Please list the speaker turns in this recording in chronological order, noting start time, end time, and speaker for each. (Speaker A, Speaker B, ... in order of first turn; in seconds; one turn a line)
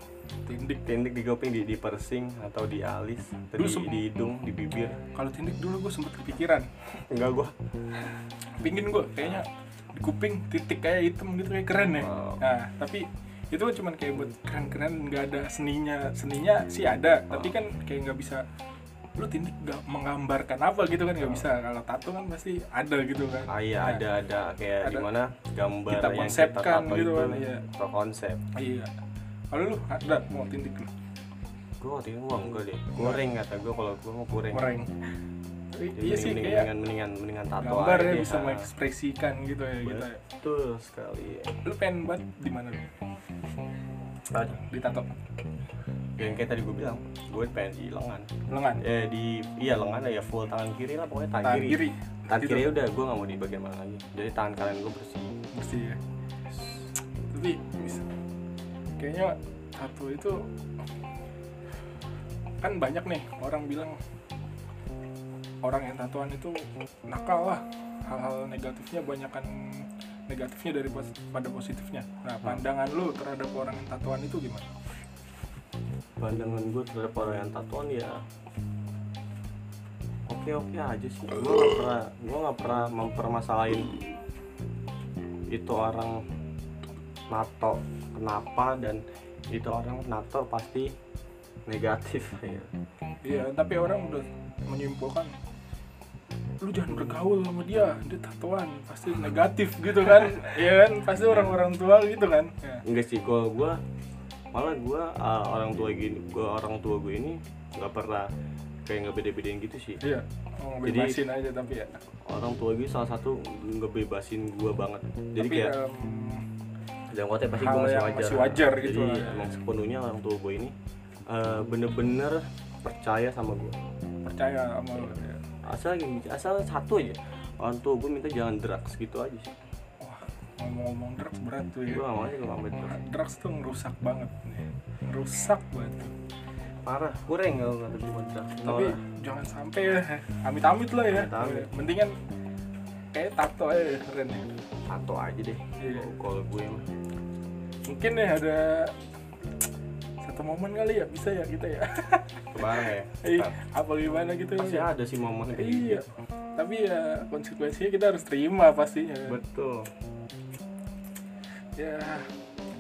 Speaker A: 0.5-0.8
Speaker B: 0.8-5.0
Speaker A: 3.6-4.0
Speaker A: 5.1-6.7
Speaker B: 6.9-7.5
Speaker A: 8.6-18.4
Speaker B: 9.2-9.4
Speaker B: 12.0-12.4
Speaker A: 19.2-24.0
Speaker B: 21.2-21.5
Speaker B: 23.5-28.4
Speaker A: 24.8-25.1
Speaker A: 25.9-27.6
Speaker A: 28.6-28.9
Speaker A: 29.5-30.9
Speaker B: 31.8-34.7
Speaker A: 34.5-35.0
Speaker A: 35.7-36.7
Speaker B: 36.0-38.7
Speaker A: 37.6-40.2
Speaker B: 39.8-41.6
Speaker A: 41.6-42.9
Speaker B: 44.3-44.7
Speaker A: 44.7-45.1
Speaker B: 46.2-55.3
Speaker A: 48.5-48.8
Speaker A: 51.4-52.7
Speaker A: 55.5-56.0
Speaker A: 57.3-58.1
Speaker A: 59.0-60.5
Speaker A: 62.6-64.0
Speaker A: 65.6-74.7
Speaker B: 76.2-78.2
Speaker B: 80.3-83.9
Speaker B: 85.5-86.2
Speaker B: 87.3-91.0
Speaker B: 91.7-92.7
Speaker A: 93.2-95.3
Speaker A: 96.6-102.8
Speaker B: 101.2-101.6
Speaker B: 102.8-103.8
Speaker B: 104.5-108.3
Speaker B: 108.9-110.0
Speaker A: 110.0-112.0
Speaker B: 110.8-111.2
Speaker B: 112.2-115.7
Speaker A: 115.4-116.5
Speaker B: 117.1-120.7
Speaker A: 117.5-119.5
Speaker B: 121.3-123.8
Speaker A: 124.2-125.4
Speaker B: 125.0-129.6
Speaker A: 130.0-132.0
Speaker B: 131.9-133.0
Speaker A: 132.8-136.1
Speaker B: 136.8-139.0
Speaker A: 138.7-142.2
Speaker B: 141.0-141.7
Speaker A: 143.1-144.5
Speaker B: 144.9-146.9
Speaker A: 145.8-146.1
Speaker A: 147.9-148.9
Speaker A: 150.2-154.9
Speaker B: 152.5-153.5
Speaker B: 154.6-156.1
Speaker A: 155.5-159.4
Speaker B: 159.3-159.9
Speaker A: 161.8-162.3